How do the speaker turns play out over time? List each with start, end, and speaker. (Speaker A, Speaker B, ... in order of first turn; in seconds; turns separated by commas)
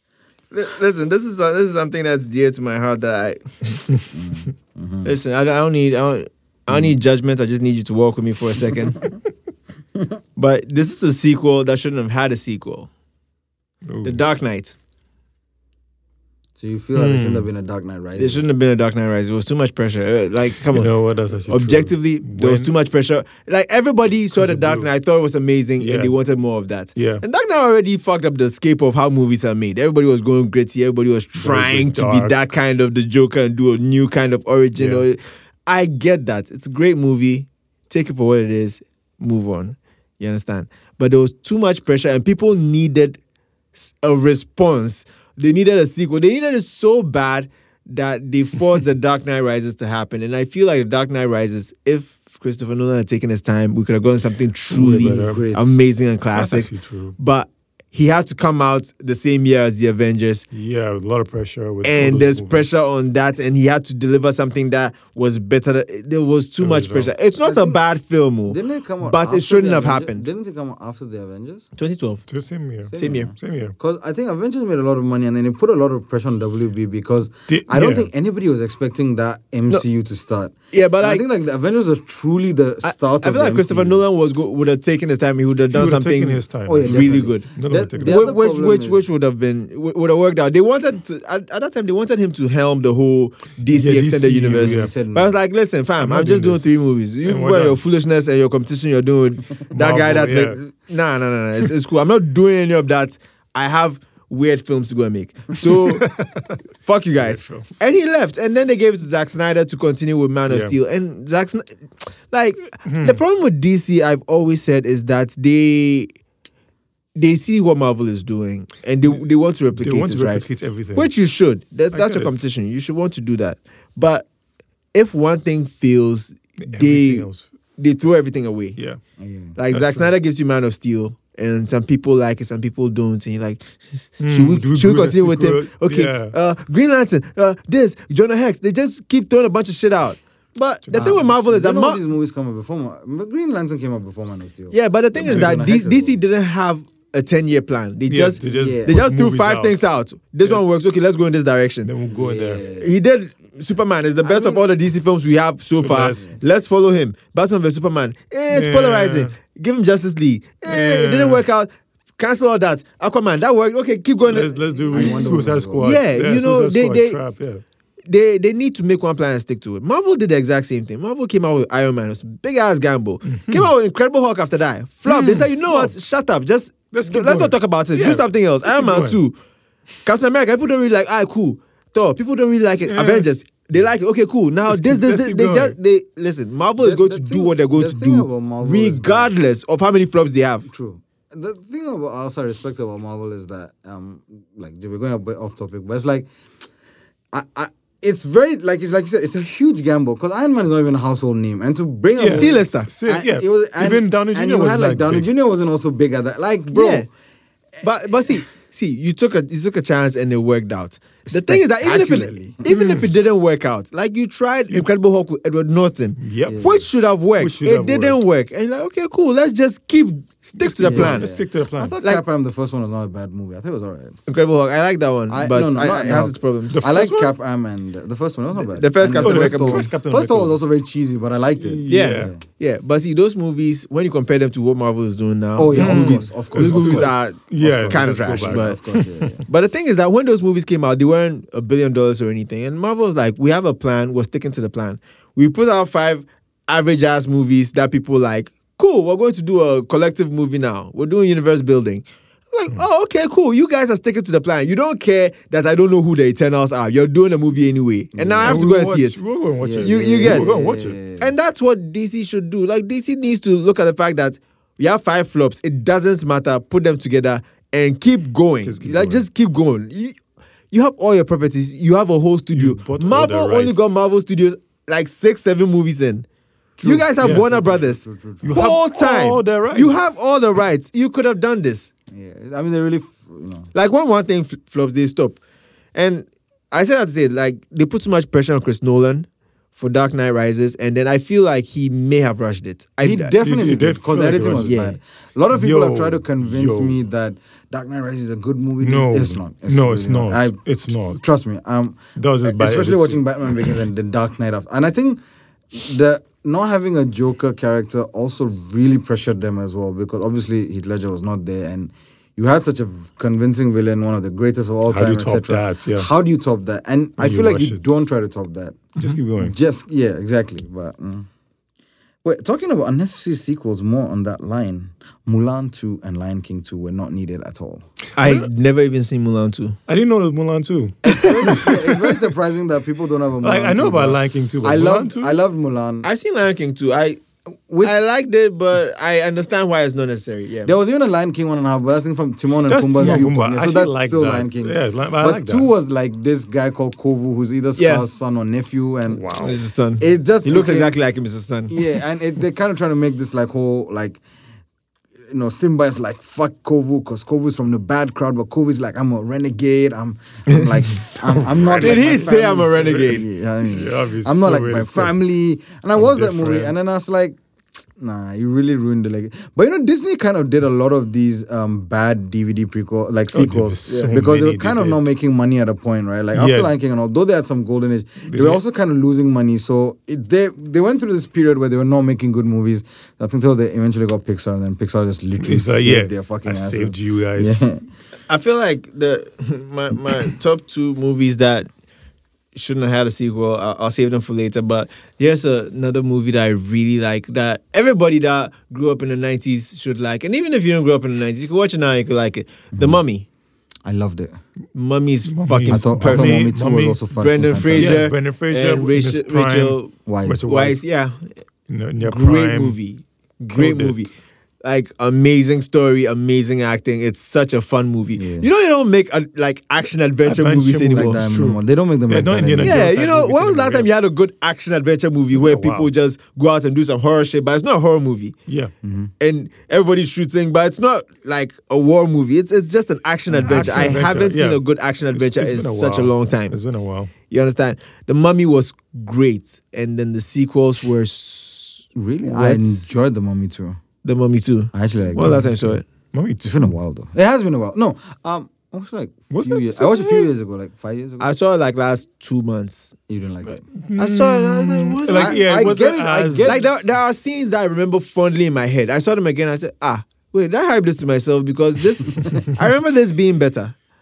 Speaker A: 0.5-3.9, Speaker B: 4.1-5.1, Speaker A: 5.0-9.0, Speaker A: 10.4-12.9, Speaker C: 13.9-14.2, Speaker A: 14.0-14.8, Speaker B: 16.6-18.5, Speaker C: 17.0-17.5, Speaker A: 18.2-20.9, Speaker C: 20.7-22.7, Speaker A: 21.5-43.2, Speaker C: 24.3-24.9, Speaker C: 25.8-26.1, Speaker C: 26.9-27.2, Speaker C: 31.4-32.4, Speaker C: 34.8-35.0, Speaker A: 43.8-60.5, Speaker B: 54.7-55.8, Speaker C: 54.8-55.5, Speaker C: 56.3-57.2, Speaker C: 60.5-62.8, Speaker A: 61.8-70.2, Speaker C: 66.6-67.1, Speaker B: 67.4-67.8, Speaker B: 68.5-71.7, Speaker A: 71.8-72.2, Speaker C: 72.3-73.7, Speaker B: 72.9-84.0, Speaker A: 73.0-73.3, Speaker C: 77.5-78.1, Speaker A: 80.7-81.2, Speaker A: 82.8-87.5, Speaker C: 85.7-88.3, Speaker B: 86.7-89.0, Speaker A: 88.0-106.1, Speaker C: 93.7-94.9, Speaker B: 94.5-95.3, Speaker C: 96.0-97.8, Speaker C: 99.7-100.6, Speaker C: 105.7-106.6, Speaker A: 106.8-116.1, Speaker C: 107.2-107.8, Speaker C: 110.5-110.7, Speaker C: 112.8-113.2, Speaker A: 117.2-124.3, Speaker C: 119.8-121.1, Speaker C: 121.9-122.3, Speaker A: 124.9-128.8, Speaker C: 126.6-127.5, Speaker B: 129.2-129.6, Speaker A: 129.6-142.0, Speaker C: 129.7-130.1, Speaker C: 134.2-136.3, Speaker C: 140.8-141.3, Speaker B: 140.9-146.2, Speaker A: 144.7-151.9, Speaker C: 145.3-145.6, Speaker C: 148.1-149.8, Speaker B: 148.4-149.0, Speaker C: 151.8-152.6, Speaker B: 152.1-152.9, Speaker A: 152.6-167.2, Speaker B: 154.2-154.7, Speaker C: 155.7-156.3, Speaker C: 158.5-159.3, Speaker C: 160.7-161.4, Speaker C: 164.3-167.6, Speaker B: 164.9-165.9, Speaker A: 168.1-179.4, Speaker C: 173.3-173.7, Speaker C: 175.1-175.9, Speaker C: 176.9-179.2, Speaker A: 180.0-190.7, Speaker C: 182.9-183.3, Speaker C: 184.7-185.8, Speaker B: 186.8-189.3, Speaker B: 190.7-196.3, Speaker B: 197.3-207.1, Speaker C: 202.2-205.3, Speaker A: 202.2-202.9, Speaker A: 206.7-207.1, Speaker A: 207.8-221.3, Speaker B: 211.3-212.6, Speaker C: 212.7-213.1, Speaker C: 216.2-216.7, Speaker B: 216.5-216.8, Speaker C: 217.4-218.2, Speaker C: 220.6-222.0, Speaker B: 220.8-224.2, Speaker A: 224.3-227.2, Speaker B: 225.3-232.4, Speaker C: 226.7-227.2, Speaker A: 228.8-229.9, Speaker C: 229.1-230.6, Speaker C: 231.6-232.3, Speaker A: 231.9-238.8, Speaker B: 235.6-239.4, Speaker C: 235.7-239.4, Speaker A: 239.5-259.2, Speaker B: 258.1-258.6, Speaker C: 258.4-261.0, Speaker B: 259.6-261.3, Speaker A: 259.8-260.5, Speaker A: 261.2-270.2, Speaker C: 268.6-269.2, Speaker A: 270.7-276.3, Speaker C: 272.5-274.1, Speaker B: 276.8-278.7, Speaker A: 276.8-281.9, Speaker C: 277.2-277.4, Speaker C: 278.4-280.2, Speaker B: 282.1-283.7, Speaker A: 283.7-285.4, Speaker A: 285.9-293.3, Speaker B: 293.0-305.2, Speaker C: 293.4-294.8, Speaker A: 294.6-295.0, Speaker C: 295.5-297.0, Speaker C: 298.8-301.2, Speaker C: 302.2-303.8, Speaker B: 305.7-321.3, Speaker C: 314.9-316.1, Speaker C: 317.2-317.9, Speaker C: 319.0-319.6, Speaker B: 322.2-327.9, Speaker A: 328.2-329.8, Speaker C: 328.2-328.5, Speaker C: 329.9-332.2, Speaker B: 331.1-336.1, Speaker C: 333.4-335.4, Speaker A: 336.0-337.2, Speaker B: 337.7-338.0, Speaker A: 337.8-340.7, Speaker B: 340.6-349.3, Speaker C: 342.7-345.7, Speaker A: 347.8-348.1, Speaker C: 349.1-349.6, Speaker A: 349.4-351.8, Speaker B: 350.0-350.9, Speaker B: 351.7-354.2, Speaker B: 355.3-367.4, Speaker C: 361.1-365.1, Speaker A: 361.8-363.2, Speaker C: 366.0-366.7, Speaker B: 368.0-387.8, Speaker C: 373.3-375.1, Speaker A: 373.9-374.1, Speaker C: 376.4-376.7, Speaker C: 378.3-378.6, Speaker C: 385.4-387.6, Speaker A: 388.3-391.7, Speaker A: 392.6-403.3, Speaker B: 402.7-403.0, Speaker B: 403.9-404.4, Speaker A: 404.7-406.4, Speaker C: 405.3-407.0, Speaker B: 405.7-408.1, Speaker A: 407.2-411.3, Speaker C: 407.8-410.8, Speaker B: 410.1-410.5, Speaker C: 411.7-412.8, Speaker A: 412.0-414.1, Speaker C: 413.5-414.1, Speaker A: 414.6-421.2, Speaker B: 418.2-418.5, Speaker C: 420.2-423.9, Speaker B: 420.9-422.9, Speaker A: 422.6-428.4, Speaker C: 425.3-425.9, Speaker C: 428.5-428.7, Speaker B: 428.8-429.1, Speaker A: 429.2-436.6, Speaker B: 433.3-434.1, Speaker C: 433.4-437.1, Speaker A: 437.3-442.8, Speaker B: 441.9-443.8, Speaker A: 444.0-445.9, Speaker B: 444.7-445.3, Speaker C: 445.2-446.7, Speaker B: 446.4-451.3, Speaker C: 449.3-450.3, Speaker A: 451.2-453.0, Speaker B: 453.1-453.6, Speaker C: 453.8-456.6, Speaker A: 454.0-455.4, Speaker B: 455.1-456.7, Speaker A: 456.4-463.8